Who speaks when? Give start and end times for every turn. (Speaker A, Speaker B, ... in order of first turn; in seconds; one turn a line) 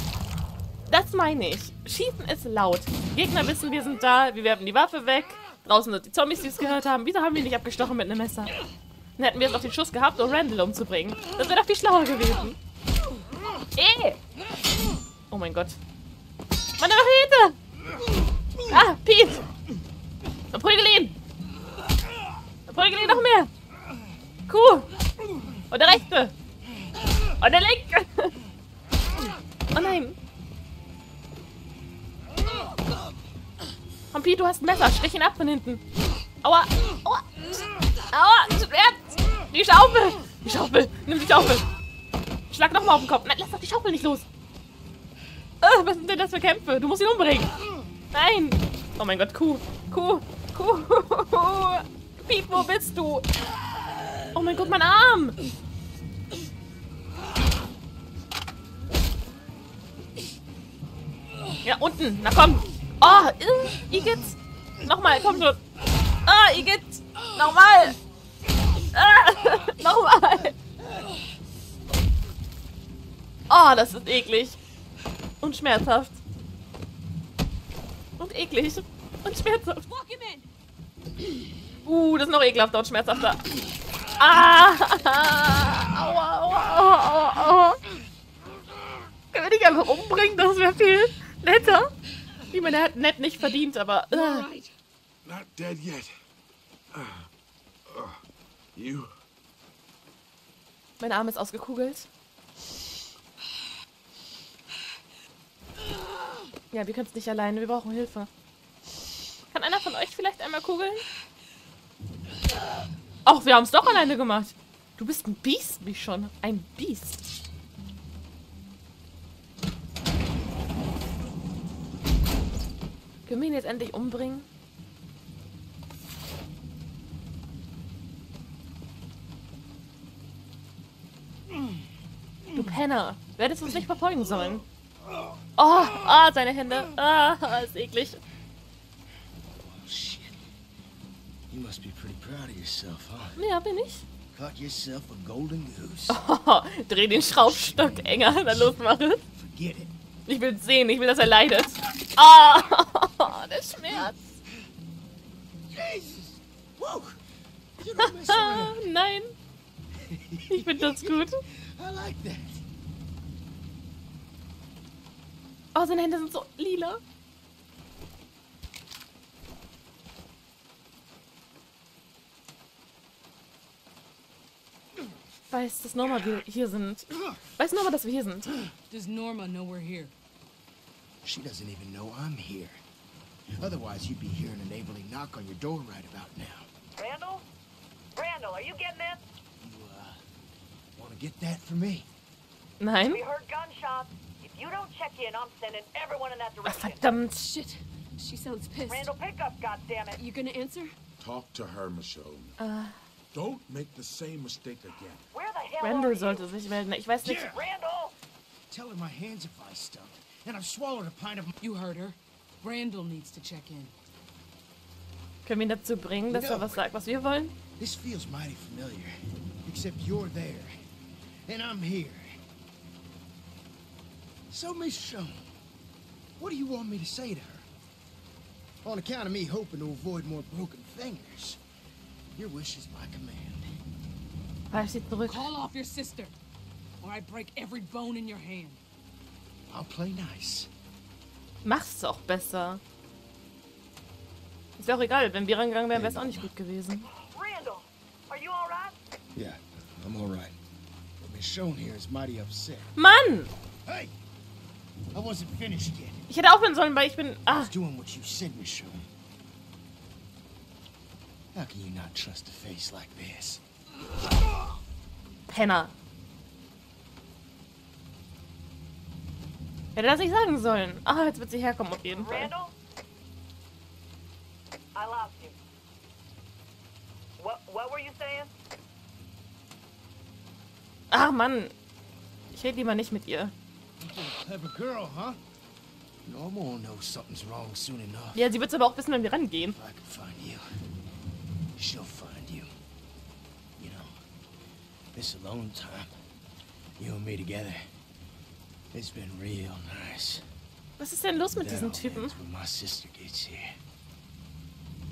Speaker A: 0.9-8.5
Speaker A: 9.2-12.6
Speaker A: 13.8-14.2
Speaker A: 15.3-15.8
Speaker A: 16.8-17.6
Speaker A: 18.7-19.5
Speaker A: 20.5-21.2
Speaker A: 22.7-23.5
Speaker A: 24.5-24.9
Speaker A: 25.7-26.3
Speaker A: 27.4-28.3
Speaker A: 29.7-30.2
Speaker A: 34.1-35.8
Speaker A: 36.4-41.7
Speaker A: 42.5-44.2
Speaker A: 45.6-47.5
Speaker A: 48.1-53.3
Speaker A: 54.3-55.4
Speaker A: 61.6-65.6
Speaker A: 66.2-68.0
Speaker A: 68.9-70.5
Speaker B: 70.8-71.0
Speaker A: 73.5-74.6
Speaker A: 75.4-76.2
Speaker A: 78.2-79.8
Speaker C: 79.8-80.5
Speaker A: 81.8-83.4
Speaker A: 84.2-87.8
Speaker A: 89.3-91.9
Speaker A: 92.5-94.5
Speaker C: 94.1-94.7
Speaker D: 95.2-96.1
Speaker D: 96.9-97.3
Speaker D: 97.9-98.2
Speaker D: 98.7-99.1
Speaker A: 101.0-102.1
Speaker A: 106.7-108.3
Speaker A: 109.5-111.0
Speaker A: 113.2-117.2
Speaker A: 123.2-124.5
Speaker A: 132.5-134.6
Speaker A: 135.6-138.2
Speaker B: 139.5-140.4
Speaker B: 141.5-143.4
Speaker A: 143.4-144.1
Speaker B: 144.3-146.2
Speaker A: 146.1-149.2
Speaker B: 147.1-148.7
Speaker B: 149.3-149.9
Speaker A: 150.3-154.2
Speaker B: 155.7-157.2
Speaker B: 157.8-158.8
Speaker A: 158.0-159.3
Speaker B: 159.9-162.6
Speaker A: 160.5-161.3
Speaker A: 165.7-167.0
Speaker A: 175.5-178.5
Speaker E: 178.9-180.1
Speaker B: 181.2-182.8
Speaker B: 183.6-186.7
Speaker F: 186.9-187.4
Speaker F: 188.1-189.2
Speaker B: 189.6-190.2
Speaker B: 190.9-192.1
Speaker A: 192.8-193.2
Speaker F: 193.0-197.1
Speaker A: 196.6-197.4
Speaker C: 197.3-199.1
Speaker F: 198.9-200.2
Speaker C: 200.2-200.9
Speaker D: 201.2-202.6
Speaker A: 202.6-203.0
Speaker D: 203.3-205.3
Speaker F: 205.3-206.4
Speaker A: 205.8-207.4
Speaker B: 207.2-207.7
Speaker F: 207.4-208.1
Speaker B: 208.7-211.5
Speaker E: 211.6-213.9
Speaker A: 215.4-217.5
Speaker B: 216.3-216.8
Speaker B: 217.8-219.1
Speaker B: 219.6-220.8
Speaker B: 221.4-222.4
Speaker B: 224.5-225.5
Speaker B: 226.4-227.7
Speaker B: 228.8-231.6
Speaker B: 232.3-233.7
Speaker A: 234.7-235.5
Speaker E: 235.3-236.3
Speaker E: 237.0-238.8
Speaker B: 239.7-240.7
Speaker A: 241.6-242.8
Speaker A: 244.8-247.1
Speaker B: 245.9-246.5
Speaker F: 247.1-248.9
Speaker B: 249.3-250.6
Speaker B: 251.2-252.9
Speaker A: 252.9-253.5
Speaker B: 253.8-254.2
Speaker B: 255.1-256.2
Speaker A: 256.3-257.7
Speaker B: 257.5-259.1
Speaker B: 261.5-263.6
Speaker A: 265.5-265.9
Speaker A: 269.9-272.5
Speaker F: 272.1-272.7
Speaker F: 274.9-275.6
Speaker F: 277.4-278.5
Speaker A: 281.1-281.7
Speaker A: 282.5-283.5
Speaker B: 284.0-285.4
Speaker B: 286.2-288.5
Speaker A: 288.3-289.8
Speaker B: 289.7-290.6
Speaker B: 291.8-292.7
Speaker B: 293.8-294.1
Speaker B: 295.1-296.1
Speaker B: 297.0-297.9
Speaker B: 298.9-300.4
Speaker A: 301.0-302.4
Speaker B: 301.6-303.7